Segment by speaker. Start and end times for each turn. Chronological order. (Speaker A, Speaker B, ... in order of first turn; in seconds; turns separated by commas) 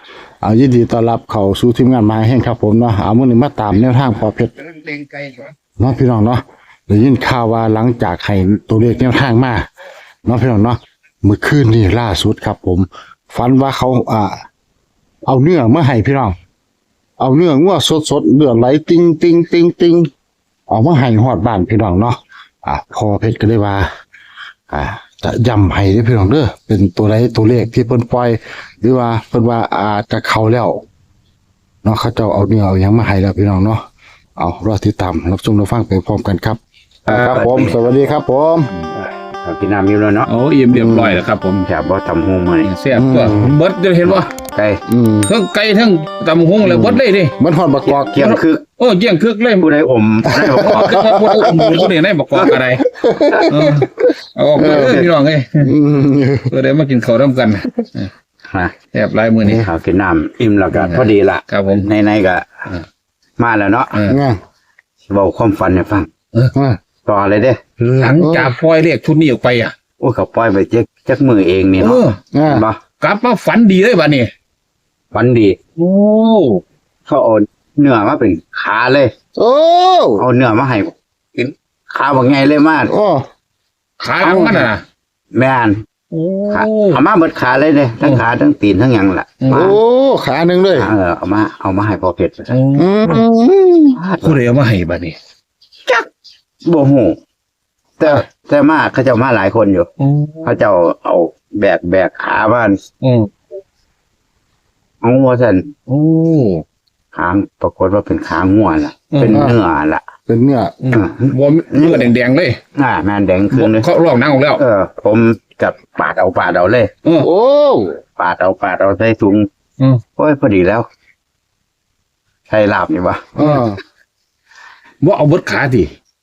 Speaker A: 0.4-4.5, Speaker A: 5.8-9.7, Speaker A: 10.2-14.3, Speaker A: 15.2-16.3, Speaker A: 17.2-20.1, Speaker A: 20.7-23.9, Speaker A: 24.7-30.8, Speaker A: 31.8-33.8, Speaker A: 34.4-38.7, Speaker B: 37.0-37.8, Speaker B: 39.4-40.3, Speaker C: 40.3-41.6, Speaker A: 40.7-41.2, Speaker B: 41.5-42.7, Speaker C: 42.6-44.3, Speaker A: 42.9-43.6, Speaker B: 44.0-44.8, Speaker A: 44.9-45.3, Speaker C: 45.3-47.3, Speaker A: 46.6-48.1, Speaker B: 47.9-48.6, Speaker C: 48.2-49.7, Speaker B: 49.6-51.0, Speaker A: 50.2-51.9, Speaker C: 50.5-52.8, Speaker A: 52.9-53.9, Speaker C: 53.5-55.7, Speaker A: 54.6-55.0, Speaker B: 54.6-55.1, Speaker A: 55.6-56.5, Speaker C: 56.5-58.1, Speaker B: 58.5-58.7, Speaker C: 58.9-59.7, Speaker B: 59.6-62.5, Speaker C: 60.7-61.9, Speaker B: 63.4-64.0, Speaker C: 63.9-64.2, Speaker A: 64.1-64.4, Speaker B: 65.0-66.1, Speaker B: 67.0-67.6, Speaker C: 67.8-69.7, Speaker A: 68.0-68.5, Speaker B: 70.0-72.8, Speaker C: 71.8-72.2, Speaker A: 72.3-72.7, Speaker C: 73.0-74.3, Speaker B: 75.1-75.5, Speaker C: 75.8-76.6, Speaker B: 77.0-79.1, Speaker A: 79.3-80.2, Speaker B: 80.2-82.9, Speaker A: 82.9-83.2, Speaker C: 84.0-84.8, Speaker B: 84.2-84.7, Speaker B: 85.3-85.8, Speaker C: 86.1-87.0, Speaker B: 86.5-89.8, Speaker C: 89.4-89.7, Speaker A: 89.5-90.9, Speaker B: 90.7-92.5, Speaker C: 92.5-93.2, Speaker A: 92.8-94.0, Speaker B: 93.9-94.4, Speaker C: 94.2-95.2, Speaker B: 96.6-97.2, Speaker B: 98.0-99.9, Speaker C: 100.0-100.6, Speaker B: 100.4-102.8, Speaker C: 103.0-103.3, Speaker B: 105.0-105.7, Speaker C: 105.9-106.6, Speaker B: 107.1-110.0, Speaker C: 109.1-109.5, Speaker A: 110.3-110.7, Speaker C: 110.8-112.6, Speaker B: 110.9-112.1, Speaker B: 112.8-113.9, Speaker C: 113.5-114.6, Speaker B: 114.5-116.9, Speaker A: 117.2-118.0, Speaker B: 118.2-119.5, Speaker B: 120.2-120.8, Speaker B: 122.5-123.3, Speaker A: 123.3-123.8, Speaker C: 123.4-123.6, Speaker C: 125.0-125.9